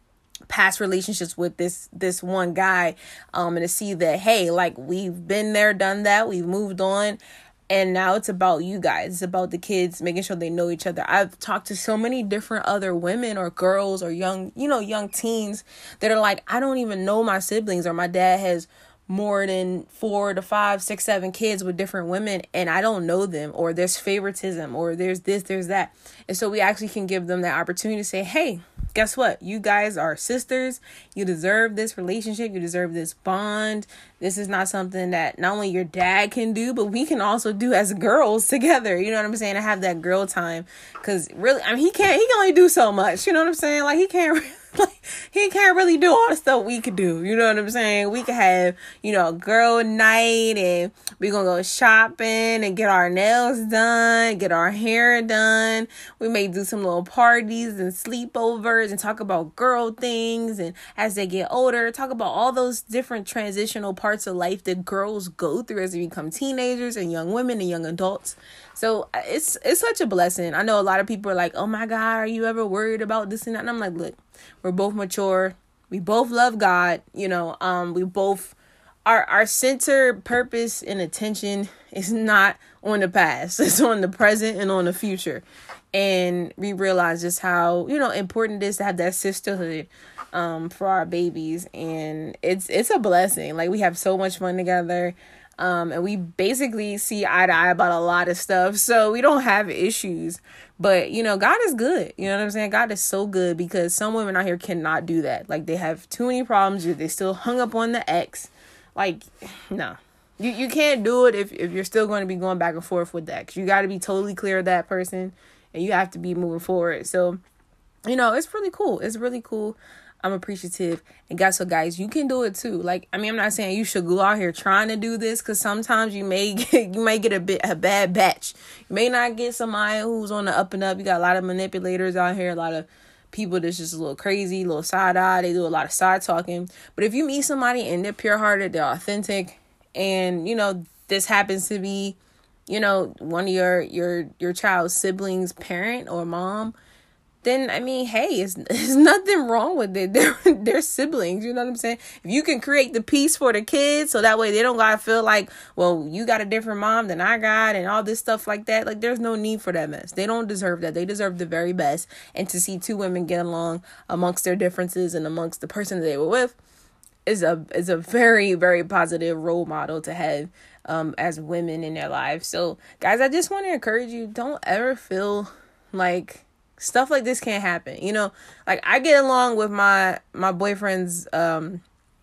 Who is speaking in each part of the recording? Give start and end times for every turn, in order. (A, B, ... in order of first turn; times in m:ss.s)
0:00.5-1:57.4 A
1:58.1-2:22.2 A
2:22.7-2:26.7 A
2:27.4-2:46.6 A
2:47.2-3:01.8 A